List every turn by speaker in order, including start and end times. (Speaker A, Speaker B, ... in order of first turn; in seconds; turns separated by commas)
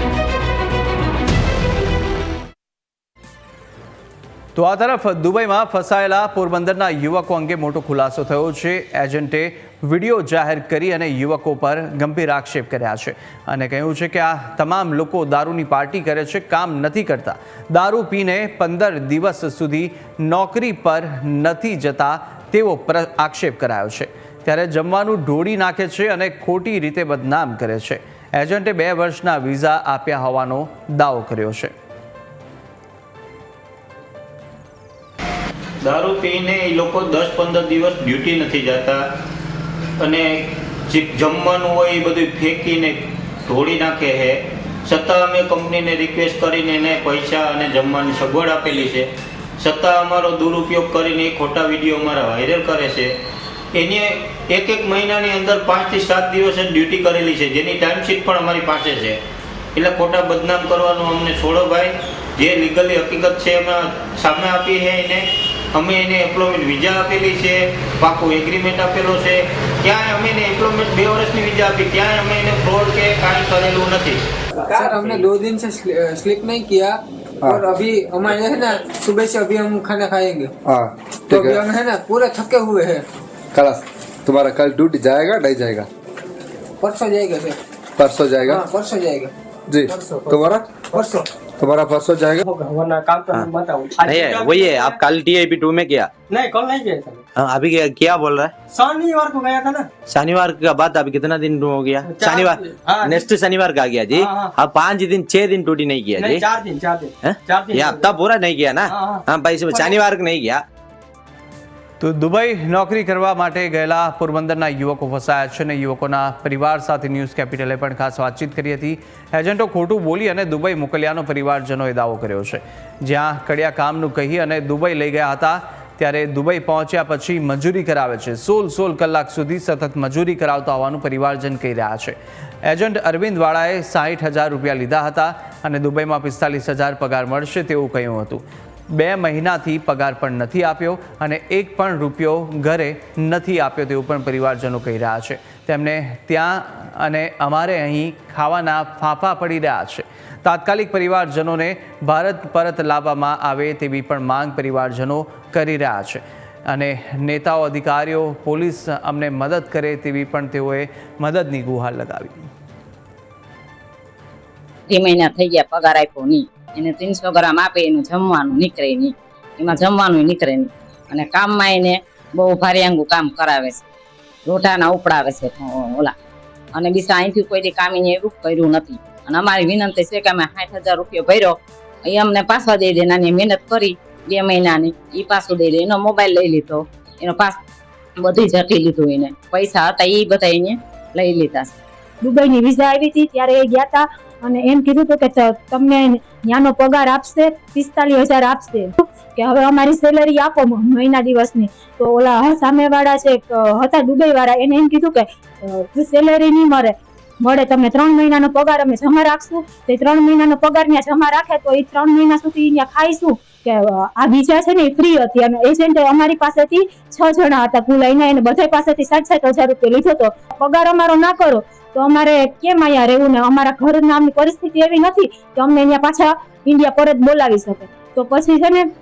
Speaker A: 4.5-31.7, Speaker B: 35.8-39.0, Speaker B: 40.0-53.1, Speaker B: 53.7-59.2, Speaker B: 59.7-75.2, Speaker C: 74.6-80.5, Speaker D: 77.4-77.7, Speaker D: 80.6-81.6, Speaker C: 81.3-83.0, Speaker D: 83.5-85.9, Speaker C: 86.8-87.5, Speaker D: 88.0-88.6, Speaker C: 88.5-89.3, Speaker D: 89.7-90.8, Speaker D: 91.6-92.4, Speaker E: 92.5-94.7, Speaker F: 94.0-96.1, Speaker E: 96.3-97.2, Speaker F: 97.3-98.5, Speaker E: 98.8-99.8, Speaker F: 100.1-106.5, Speaker E: 102.2-103.0, Speaker E: 106.6-108.1, Speaker F: 107.2-110.6, Speaker A: 112.0-162.5, Speaker G: 164.9-173.8, Speaker G: 174.4-176.2, Speaker G: 176.7-187.6, Speaker G: 188.2-191.8, Speaker H: 192.2-228.9